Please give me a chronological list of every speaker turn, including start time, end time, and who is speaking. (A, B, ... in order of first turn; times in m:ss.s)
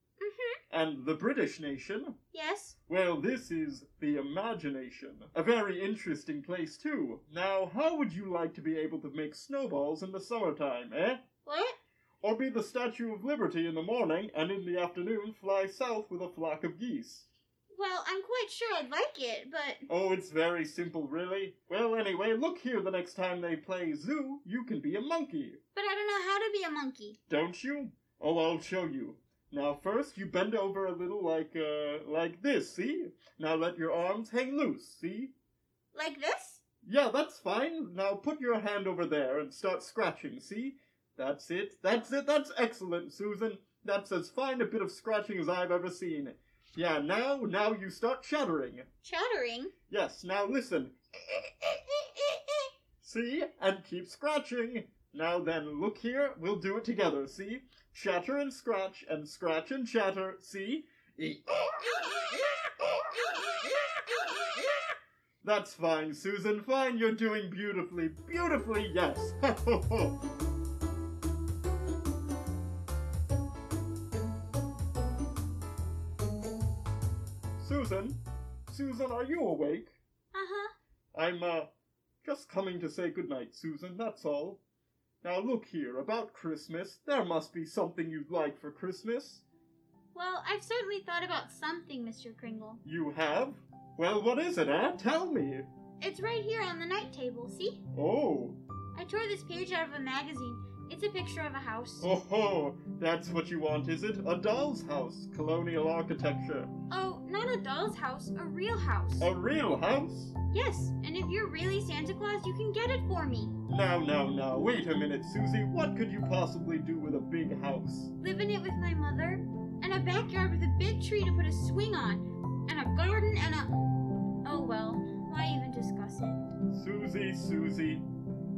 0:00.2-0:00.6 A
0:00.7-0:02.2 B
0:02.3-0:02.8 A
0:02.9-0:11.2 B
0:11.4-0:11.8 A
0:12.2-0:17.3 B
0:17.7-0:19.9 A
0:19.9-0:25.6 B
0:25.7-0:27.2 A
0:27.3-0:35.3 B
0:35.9-0:36.6 A
0:36.8-0:48.9 B
0:49.0-0:49.7 A
0:49.9-0:52.4 B
0:53.0-1:04.2 B
1:05.4-1:10.2 B
1:17.6-1:20.0 B
1:20.3-1:20.7 A
1:21.1-1:21.7 B
1:22.2-1:24.6 B
1:25.2-1:29.4 B
1:30.1-1:32.8 A
1:32.8-1:35.7 B
1:36.0-1:37.8 A
1:37.9-1:38.6 B
1:39.0-1:42.1 A
1:42.0-1:46.7 B
1:46.9-1:49.3 A
1:49.2-1:50.4 B
1:50.5-1:53.6 A
1:53.7-1:58.1 B
1:58.2-2:03.7 A
2:04.4-2:06.5 A
2:06.7-2:08.1 B